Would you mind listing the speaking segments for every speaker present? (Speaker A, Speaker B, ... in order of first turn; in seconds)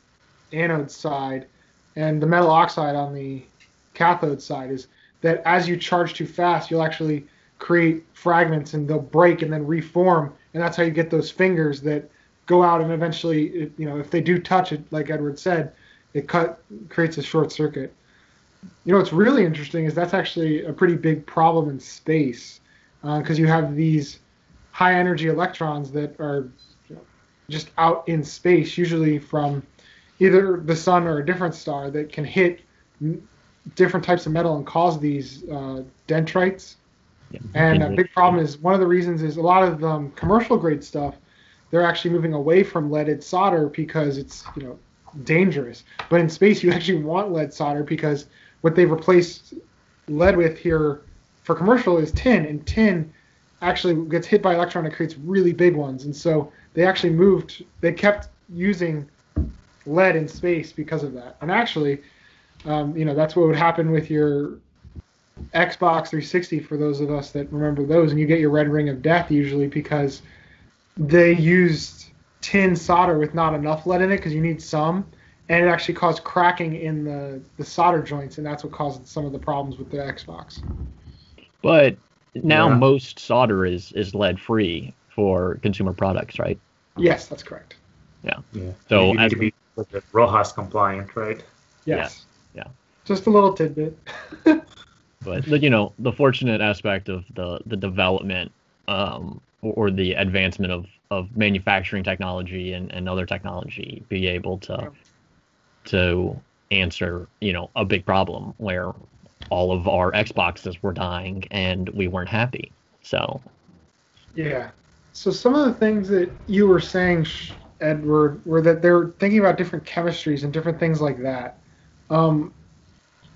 Speaker A: 0.5-18.0, 18.9-24.2, 24.7-29.7, 30.2-36.8, 37.5-41.2, 41.7-49.5, 50.1-59.1, 59.9-62.0, 62.7-64.6, 65.5-70.2, 71.0-80.6, 87.0-87.8, 91.9-92.3, 93.1-94.7, 114.3-121.6, 122.1-122.5
Speaker B: 37.3-38.1, 81.6-86.6, 88.2-89.5, 91.9-92.7, 95.2-104.9, 105.9-109.0, 109.5-113.5
Speaker C: 82.5-82.8, 88.5-91.5